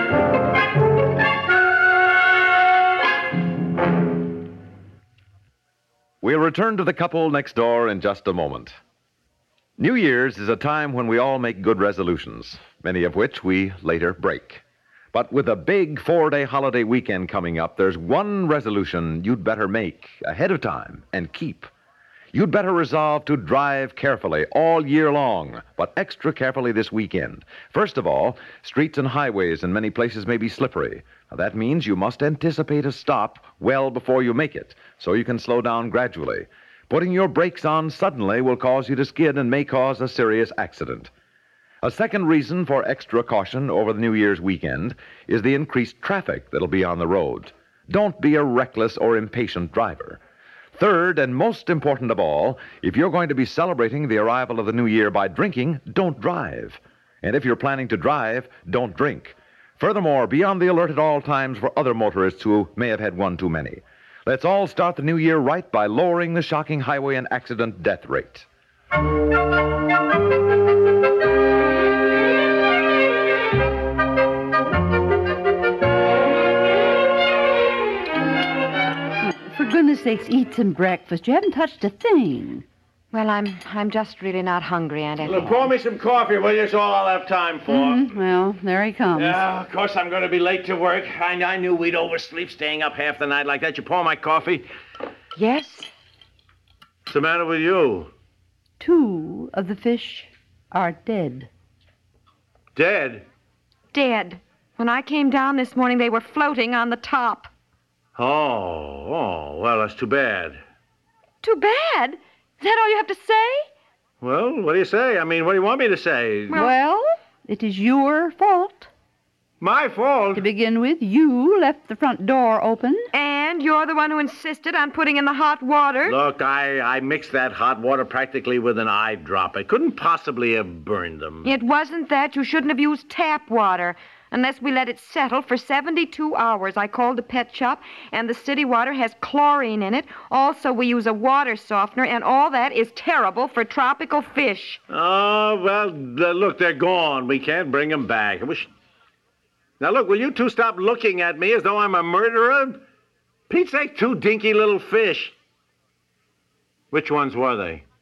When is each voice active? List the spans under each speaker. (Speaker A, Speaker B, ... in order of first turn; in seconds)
Speaker A: 6.2-8.8, 9.8-21.7, 22.3-41.1, 41.8-50.2, 50.8-68.5
Speaker B: 79.2-82.7, 87.7-89.4, 98.8-101.5, 116.5-118.9, 120.3-123.1
Speaker C: 83.1-85.5, 95.4-95.9, 103.9-107.5, 111.4-113.6, 116.5-116.7, 123.1-126.2, 131.4-144.8
Speaker D: 85.2-88.1, 89.2-94.7, 97.1-98.1, 102.8-103.3, 108.2-110.6, 114.2-116.6, 119.6-120.5, 126.0-131.5, 144.9-148.7, 149.8-152.8, 153.5-155.3, 156.9-157.8